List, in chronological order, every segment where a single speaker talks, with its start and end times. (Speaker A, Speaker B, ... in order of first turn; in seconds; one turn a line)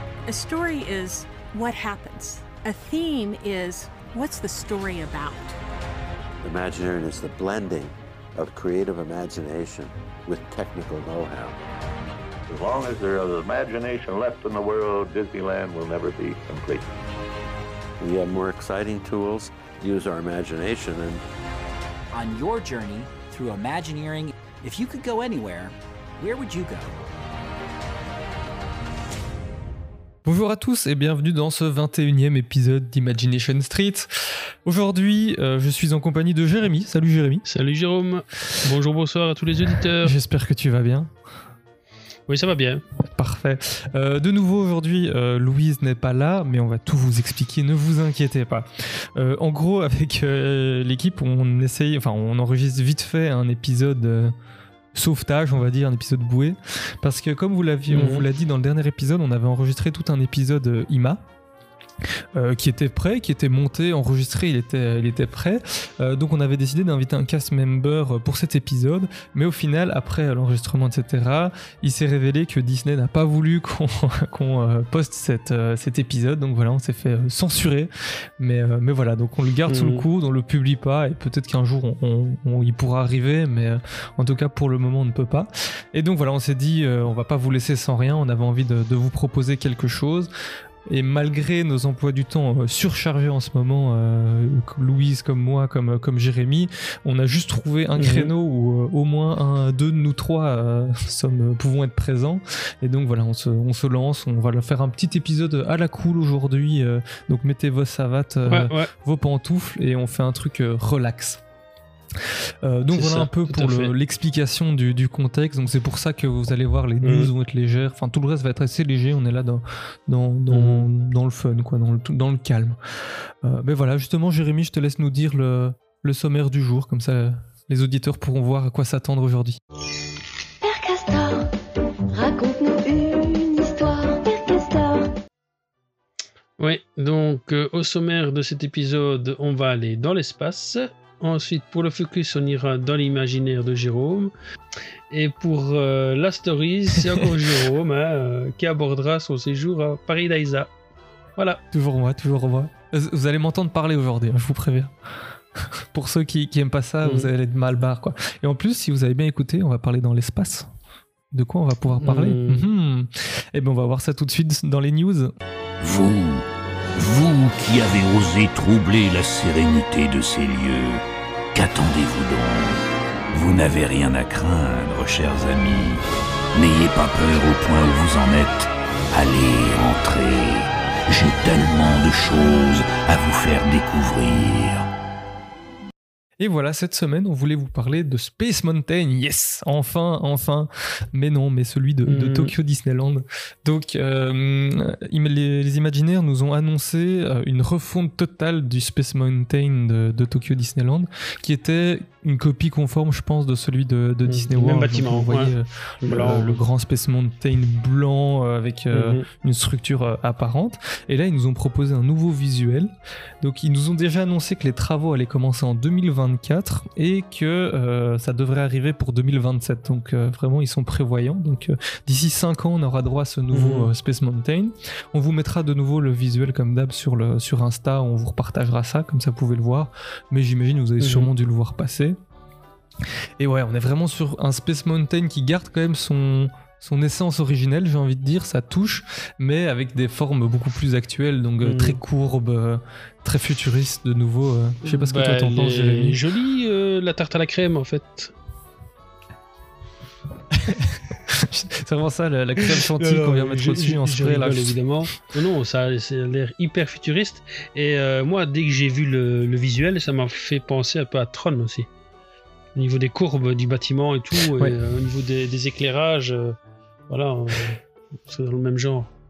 Speaker A: 0.2-5.6
Speaker B: 6.4-11.6
Speaker C: 12.5-16.9
Speaker B: 18.0-21.2
Speaker D: 22.1-26.9
Speaker E: 30.2-37.4
Speaker F: 37.5-40.1
Speaker E: 40.0-41.1
Speaker F: 42.3-42.8
Speaker E: 43.1-54.3
Speaker E: 54.9-61.2
Speaker F: 57.9-58.2
Speaker E: 62.3-90.3
Speaker F: 79.7-80.0
Speaker E: 90.8-111.4
Speaker F: 98.0-98.3
Speaker F: 108.5-108.9
Speaker E: 112.2-122.8
Speaker F: 112.9-113.9
Speaker F: 117.0-117.3
Speaker F: 120.5-120.9
Speaker E: 123.4-129.6
Speaker G: 130.6-131.5
Speaker G: 132.1-135.1
Speaker F: 136.6-144.3
Speaker F: 145.1-150.7
Speaker E: 151.7-154.9
Speaker E: 155.6-160.7
Speaker F: 157.0-157.3
Speaker E: 161.3-165.3
Speaker F: 162.0-162.7
Speaker H: 165.8-171.0
Speaker H: 171.5-172.8
Speaker H: 173.3-176.0
Speaker H: 176.5-184.8
Speaker E: 186.4-232.2
Speaker F: 192.1-192.5
Speaker F: 204.2-205.5
Speaker F: 206.0-206.6
Speaker F: 208.9-209.2
Speaker F: 223.5-223.9
Speaker F: 231.0-231.3
Speaker E: 233.4-246.2
Speaker F: 241.6-242.0
Speaker F: 244.8-248.3
Speaker E: 250.5-254.8
Speaker F: 252.8-261.9
Speaker F: 262.8-266.6
Speaker F: 267.1-269.1